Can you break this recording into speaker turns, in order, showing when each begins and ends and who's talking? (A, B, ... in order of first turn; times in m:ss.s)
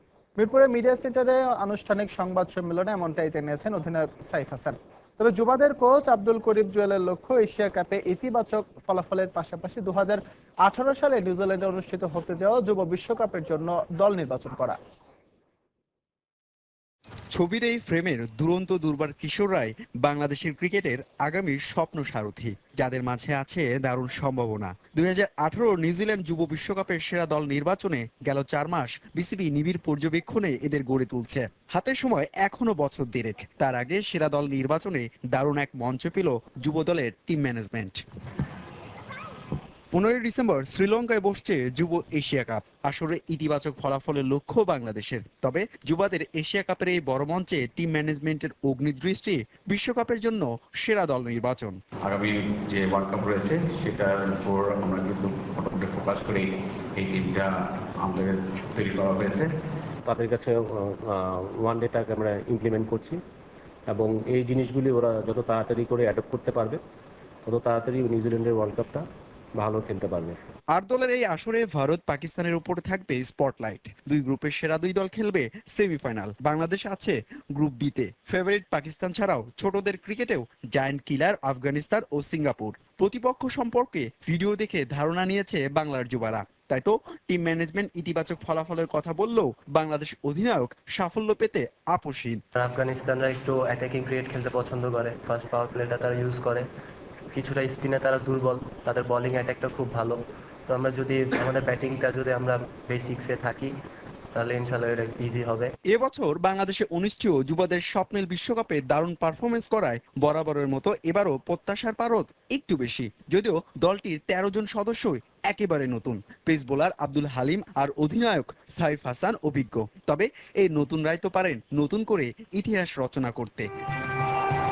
0:00.4-0:14.8 A
0:17.3-0:38.0 B
0:39.9-0:51.8 B
0:52.0-0:59.5 C
1:00.1-1:03.2 D
1:03.9-1:06.8 D
1:07.5-1:09.0 D
1:09.6-1:10.4 D
1:10.7-1:32.4 B
1:32.6-1:36.6 E
1:37.4-1:43.7 E
1:44.4-1:45.7 E
1:45.9-2:03.7 B